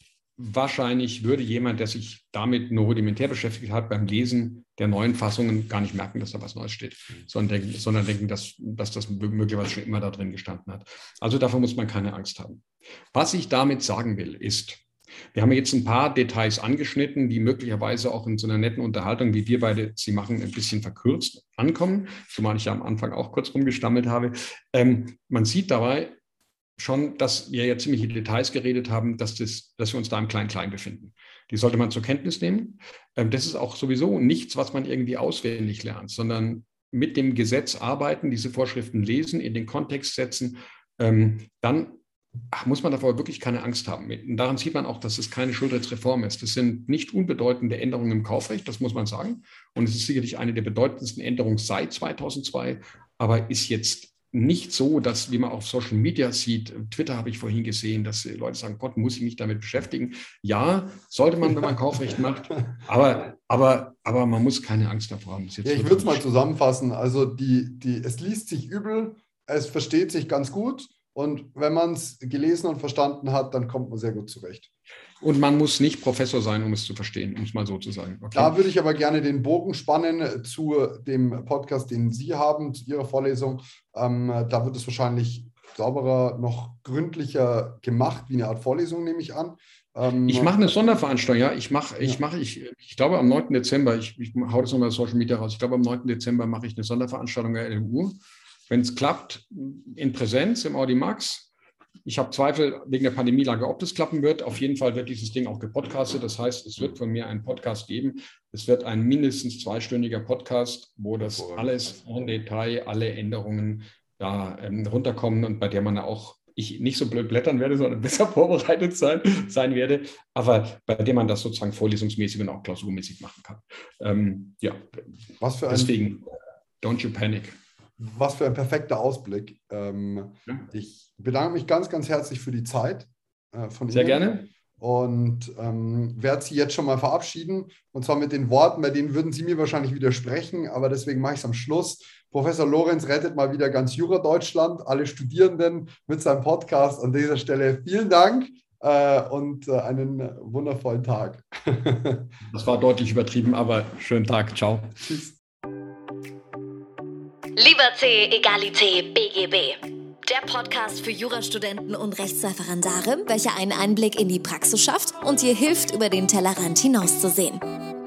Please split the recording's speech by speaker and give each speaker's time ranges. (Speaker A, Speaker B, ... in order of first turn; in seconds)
Speaker A: 0.4-26.2, 26.8-42.0, 42.5-66.2, 75.2-78.6, 90.3-101.5, 102.0-124.9, 125.7-126.3, 126.8-127.6, 133.9-134.5, 152.5-154.9
Speaker B: 65.6-74.7, 78.3-91.0, 111.2-111.7, 125.4-126.0, 128.0-152.3, 155.0-155.4
Speaker C: 157.6-167.6